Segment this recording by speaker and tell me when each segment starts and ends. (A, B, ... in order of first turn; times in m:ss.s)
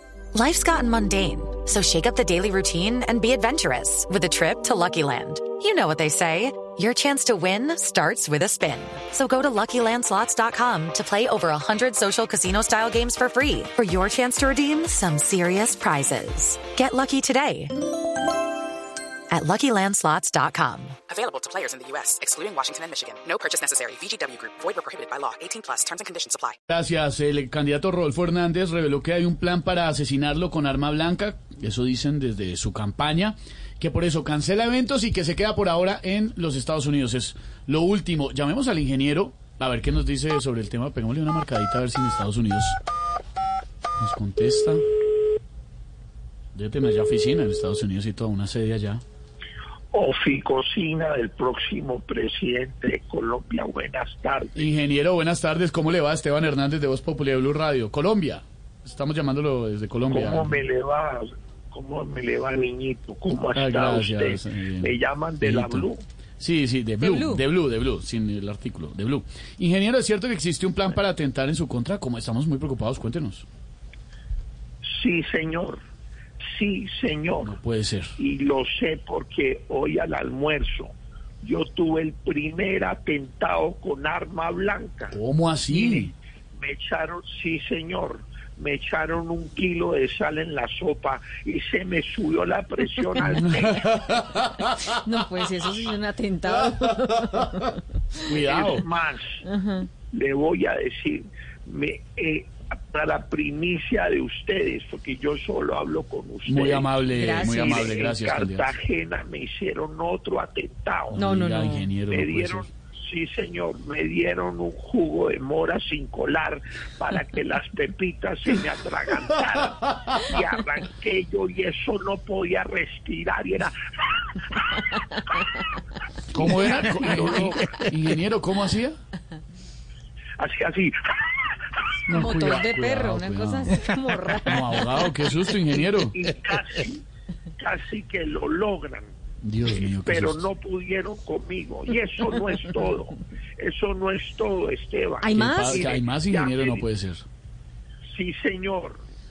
0:00.3-0:17.8 A
0:19.3-0:21.0 A
0:21.1-0:26.6 B
0:26.7-0:42.8 C
0:44.0-0:44.8 C
0:46.5-0:49.0 C
0:49.9-0:54.7 D
0:54.6-1:00.6 C
1:00.1-1:06.0 D
1:03.6-1:13.5 C
1:07.0-1:07.4 E
1:14.8-1:15.8 D
1:16.5-1:17.6 D
1:17.4-1:18.2 C
1:18.2-1:25.2 D
1:25.1-1:26.1 C
1:25.7-1:33.9 D
1:33.2-1:34.9 C
1:35.0-1:37.8 E
1:38.3-1:38.8 C
1:38.3-1:39.4 D
1:39.4-1:39.9 E
1:40.1-1:51.2 D
1:46.4-1:48.7 C
1:47.1-1:48.0 E
1:51.1-1:52.7 C
1:51.2-1:51.9 E
1:52.1-2:05.5 D
2:06.3-2:09.0 C
2:06.3-2:07.8 D
2:10.4-2:12.0 D
2:12.1-2:13.9 C
2:12.1-2:15.1 E
2:14.4-2:16.2 C
2:15.7-2:17.1 D
2:17.6-2:19.1 D
2:19.4-2:20.5 C
2:19.7-2:26.9 D
2:25.2-2:25.9 E
2:25.3-2:27.3 C
2:28.1-2:29.0 D